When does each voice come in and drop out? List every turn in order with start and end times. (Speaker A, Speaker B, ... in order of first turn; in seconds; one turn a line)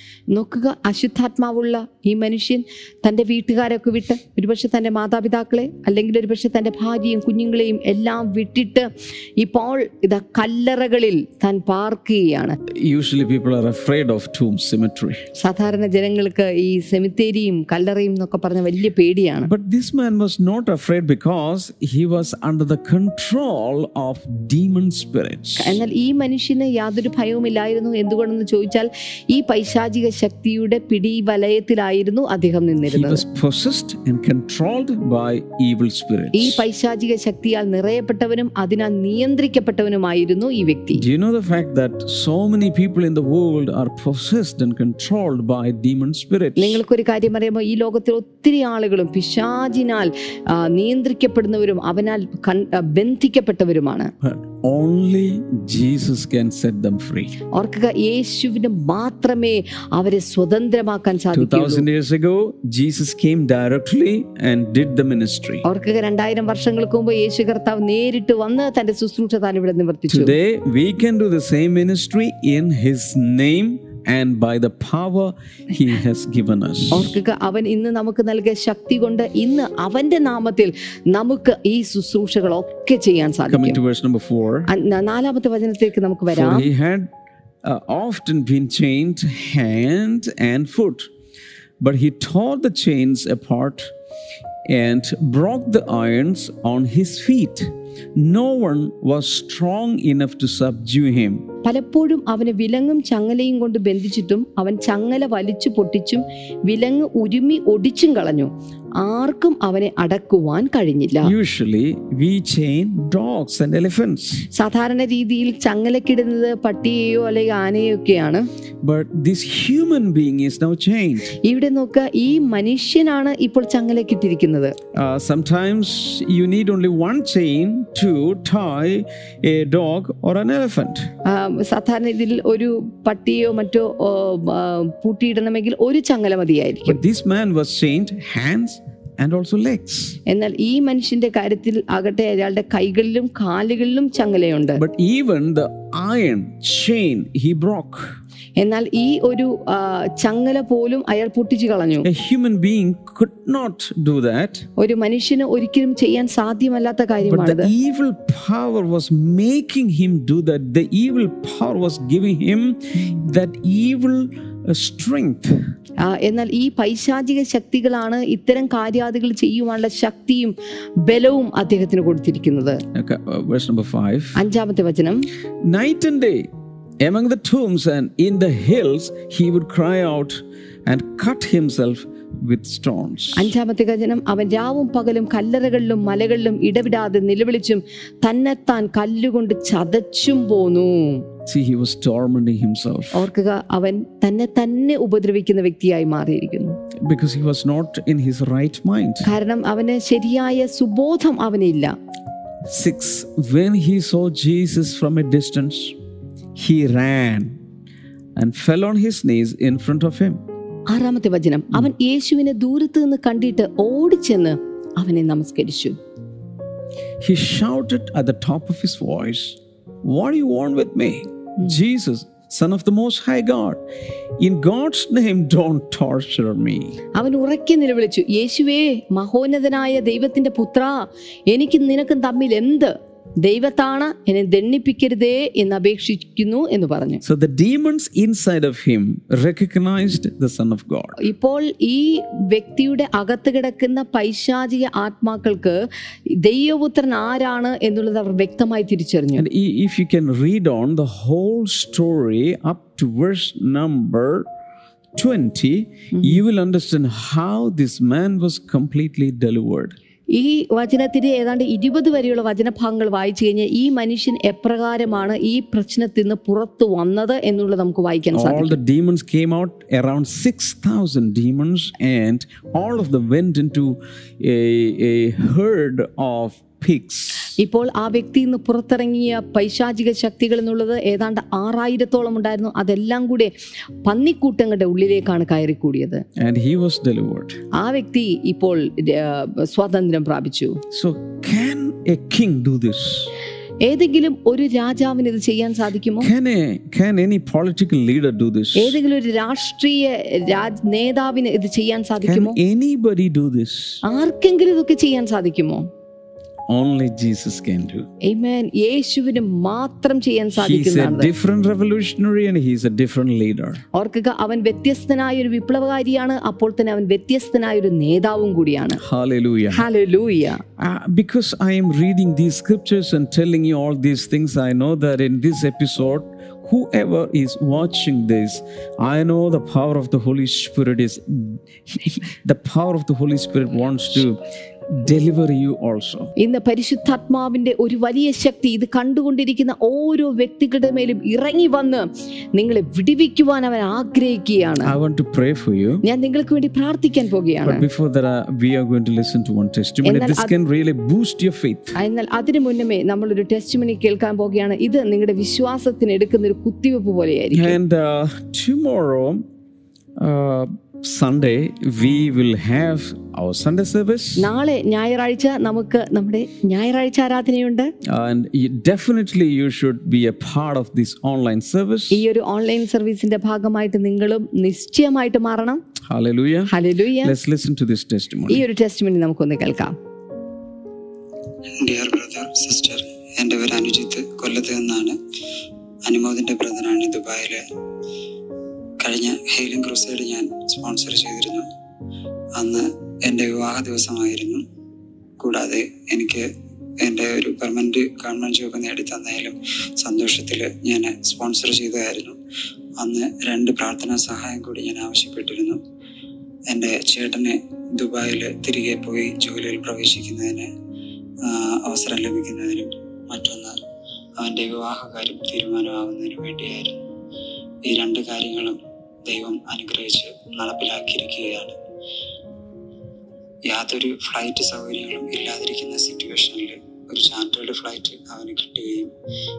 Speaker A: 0.3-12.6
Speaker B: 12.7-15.2
Speaker A: 15.4-19.5
Speaker B: 19.4-25.8
Speaker A: 25.6-33.2
Speaker B: 32.9-36.6
Speaker A: 36.3-41.0
Speaker B: 40.9-46.8
Speaker A: 46.6-54.1
Speaker B: 54.2-57.3
Speaker A: 57.5-61.9
Speaker B: 61.3-65.6
Speaker A: 65.6-70.3
Speaker B: 70.1-77.1
Speaker A: 76.9-83.8
Speaker B: 83.5-84.7
Speaker A: 84.7-86.7
Speaker B: 86.3-87.1
Speaker B: 87.6-91.1
Speaker B: 91.8-93.9
Speaker B: 94.7-101.4
Speaker A: 101.6-111.3
Speaker B: 111.2-114.5
Speaker A: 114.5-118.5
Speaker B: 118.8-121.3
Speaker A: 121.4-124.8
Speaker B: 124.9-131.1
Speaker A: 131.2-137.0
Speaker B: 136.9-140.2
Speaker A: 140.3-144.8
Speaker B: 144.8-148.2
Speaker A: 148.6-152.1
Speaker B: 152.0-154.7
Speaker A: 154.8-157.7
Speaker B: 157.2-165.6
Speaker A: 166.0-172.8
Speaker B: 172.9-174.4
Speaker A: 174.3-175.3
Speaker B: 175.6-176.5
Speaker B: 177.0-183.5
Speaker A: 183.3-191.2
Speaker B: 191.4-193.2
Speaker A: 193.1-196.8
Speaker B: 197.0-199.3
Speaker A: 199.2-201.9
Speaker B: 202.7-205.9
Speaker B: 206.6-207.6
Speaker B: 208.3-210.4
Speaker A: 210.9-216.0
Speaker B: 217.2-223.8
Speaker B: 224.4-226.9
Speaker A: 227.1-237.2
Speaker B: 237.2-241.2
Speaker A: 241.2-245.8
Speaker A: 246.4-249.4
Speaker B: 249.3-254.4
Speaker B: 255.2-259.9
Speaker A: 256.1-256.4
Speaker A: 260.3-268.8
Speaker B: 268.3-277.5
Speaker A: 277.6-283.5
Speaker A: 284.0-286.2
Speaker B: 286.4-287.6
Speaker A: 287.7-290.8
Speaker B: 290.9-293.3
Speaker A: 293.8-296.3
Speaker B: 296.2-299.0
Speaker A: 298.8-302.6
Speaker B: 302.2-304.0
Speaker A: 304.0-305.9
Speaker B: 306.7-308.1
Speaker A: 308.2-311.3
Speaker B: 310.6-313.8
Speaker A: 313.9-319.0
Speaker B: 319.0-319.8
Speaker A: 319.7-320.6
Speaker B: 320.8-336.3
Speaker A: 336.4-344.9
Speaker B: 344.8-346.0
Speaker A: 346.0-347.8
Speaker B: 347.6-351.9
Speaker A: 350.0-350.5
Speaker A: 351.9-357.8
Speaker B: 357.5-359.4
Speaker B: 360.2-364.4
Speaker A: 364.4-367.9
Speaker B: 368.0-372.2
Speaker A: 372.1-375.8
Speaker B: 376.1-378.6
Speaker A: 376.7-377.3
Speaker A: 378.5-379.9
Speaker C: 381.8-385.2
Speaker C: 386.1-387.6
Speaker C: 389.0-391.7
Speaker C: 392.6-394.6
Speaker C: 395.4-396.5
Speaker C: 397.0-402.4
Speaker C: 403.0-405.8
Speaker C: 406.7-410.7
Speaker C: 411.4-413.8
Speaker C: 414.4-417.0
Speaker C: 417.8-421.8
Speaker C: 423.6-429.1